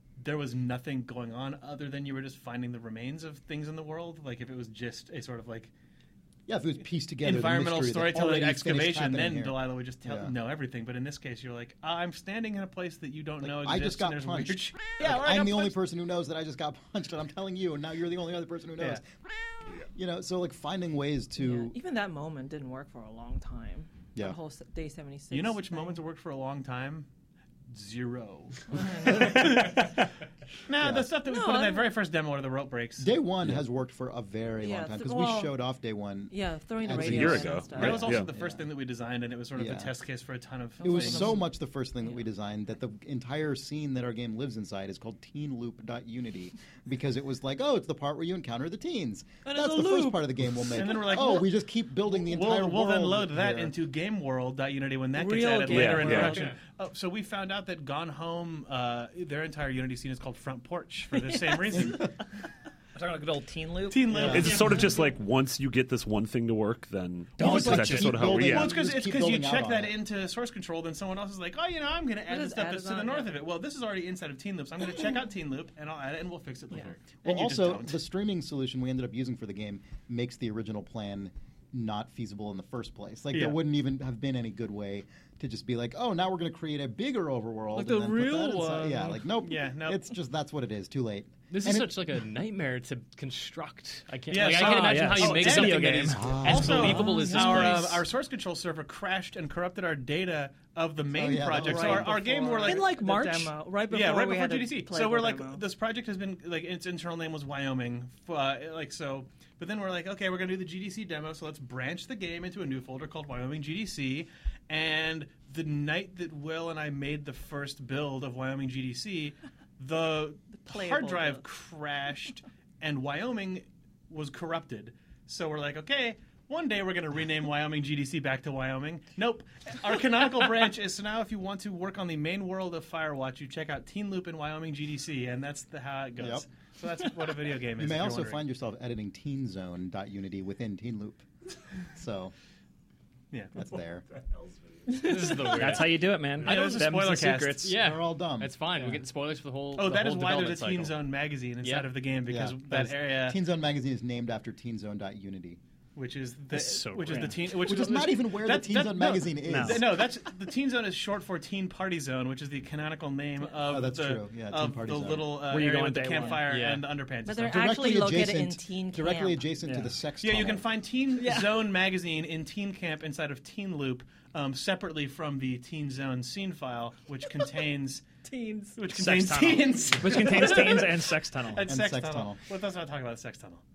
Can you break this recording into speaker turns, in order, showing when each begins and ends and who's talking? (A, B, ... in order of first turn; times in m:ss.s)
0:00.2-0:05.7 A
0:06.5-0:10.3 B
0:07.2-0:15.7 A
0:13.4-0:19.0 B
0:19.9-0:21.8 B
0:21.4-0:26.0 C
0:25.3-0:27.1 A
0:27.7-0:30.1 A
0:28.7-0:29.5 C
0:30.6-0:33.2 A
0:30.8-0:31.1 B
0:31.3-0:31.9 C
0:33.0-0:38.7 B
0:34.6-0:35.6 C
0:36.3-0:38.1 C
0:36.9-0:38.3 D
0:37.7-0:41.4 A
0:39.6-0:39.9 B
0:40.8-0:41.4 C
0:40.8-0:53.7 B
0:49.5-0:50.2 C
0:50.6-1:02.1 A
0:50.8-0:51.1 C
0:55.2-0:56.4 C
0:55.3-0:56.3 E
0:55.6-0:56.4 D
1:01.7-1:02.1 B
1:02.9-1:04.5 E
1:03.9-1:04.8 A
1:04.1-1:04.6 B
1:04.3-1:08.8 D
1:07.4-1:08.1 E
1:07.4-1:10.0 B
1:08.0-1:18.0 A
1:12.3-1:13.3 C
1:17.2-1:32.0 B
1:23.3-1:23.6 A
1:27.8-1:29.1 F
1:29.4-1:30.0 A
1:31.5-1:38.0 F
1:34.3-1:43.2 A
1:34.4-1:36.4 E
1:36.2-1:37.0 B
1:36.9-1:37.7 C
1:41.1-1:42.2 B
1:41.3-1:45.6 C
1:42.6-1:43.5 E
1:43.9-2:18.4 A
2:00.6-2:01.4 C
2:16.2-2:16.4 B
2:17.8-2:21.2 B
2:21.8-2:22.3 B
2:23.5-2:24.0 B
2:24.9-2:26.8 F
2:25.4-2:27.8 E
2:26.4-2:27.8 A
2:27.6-2:31.0 F
2:27.8-2:28.5 B
2:29.7-2:33.4 A
2:31.6-2:31.9 F
2:32.3-2:35.6 B
2:36.0-2:47.6 A
2:36.6-2:37.2 F
2:37.1-2:37.3 E
2:37.4-2:40.0 B
2:39.4-2:39.8 E
2:43.6-2:45.4 B
2:45.5-2:46.4 E
2:46.4-2:46.8 F
2:47.2-2:49.5 C
2:47.4-2:50.7 B
2:49.6-2:49.9 E
2:50.2-2:58.0 A
2:51.2-2:51.6 C
2:58.2-2:58.8 C
2:58.8-3:03.6 A
2:58.9-3:01.7 E
3:01.7-3:02.4 B